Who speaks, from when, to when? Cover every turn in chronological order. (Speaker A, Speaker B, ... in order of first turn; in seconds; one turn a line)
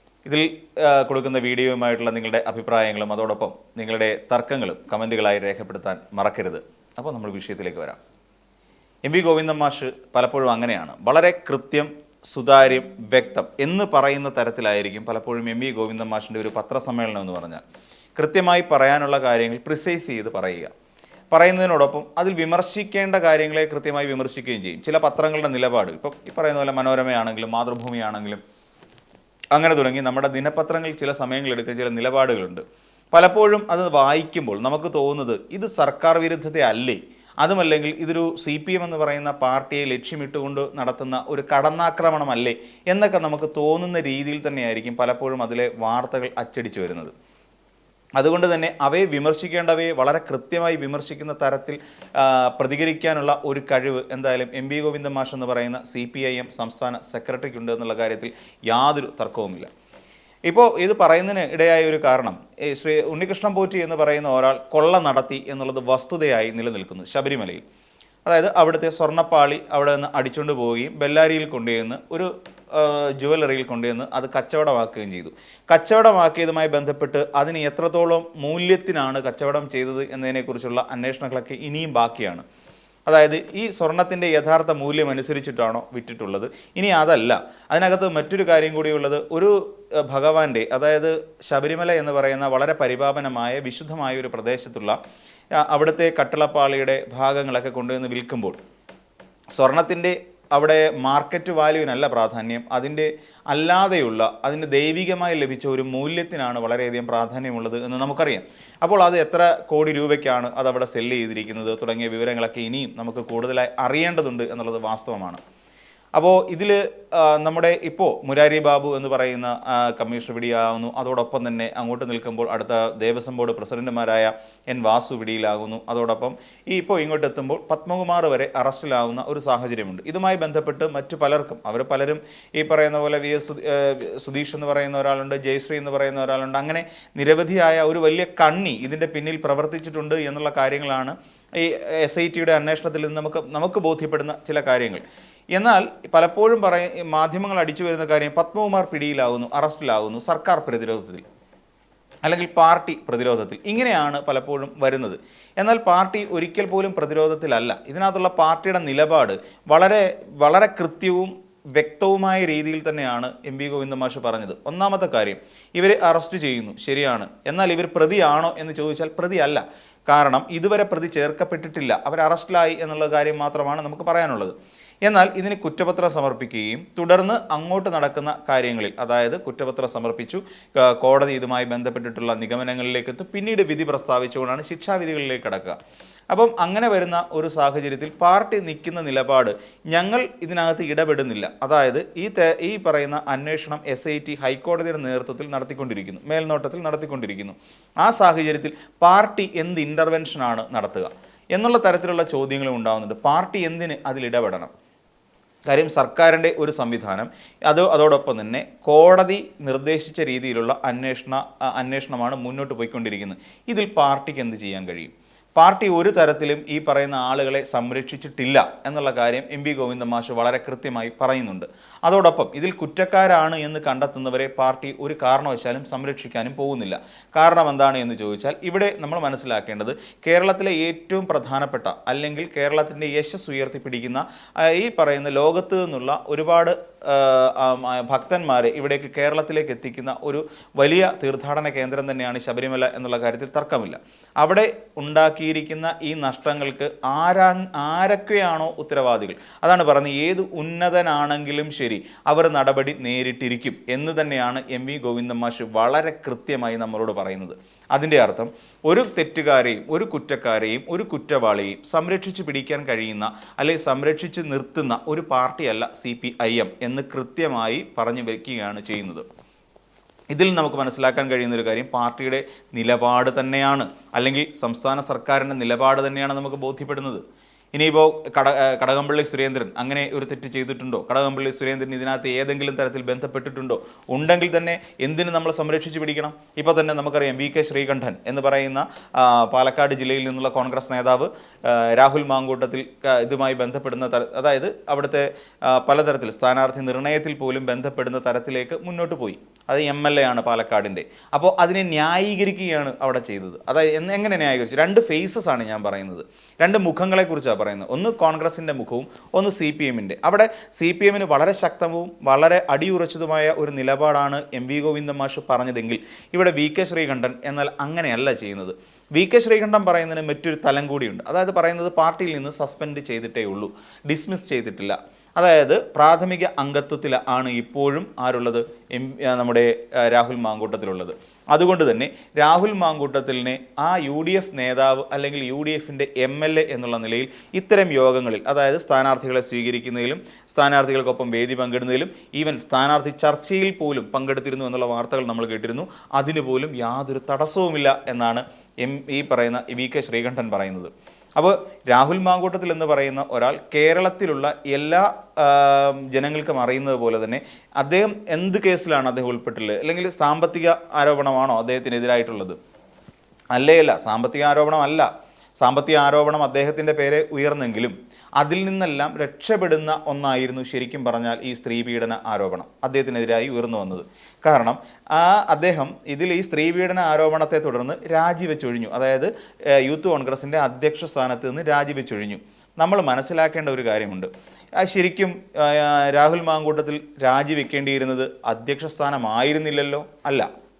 Speaker A: 0.2-8.0
Speaker A: 9.0-17.6
Speaker A: 18.2-20.7
Speaker A: 21.3-28.4
Speaker A: 29.5-47.1
Speaker A: 48.2-59.7
Speaker A: 60.5-67.6
Speaker A: 68.2-82.4
Speaker A: 83.1-95.0
Speaker A: 95.6-98.6
Speaker A: 99.5-115.4
Speaker A: 116.2-145.0
Speaker A: 145.5-151.2
Speaker A: 152.2-185.8
Speaker A: 186.3-204.7
Speaker A: 205.7-269.2
Speaker A: 270.3-277.2
Speaker A: 277.7-362.6
Speaker A: 363.5-365.1
Speaker A: 365.6-390.5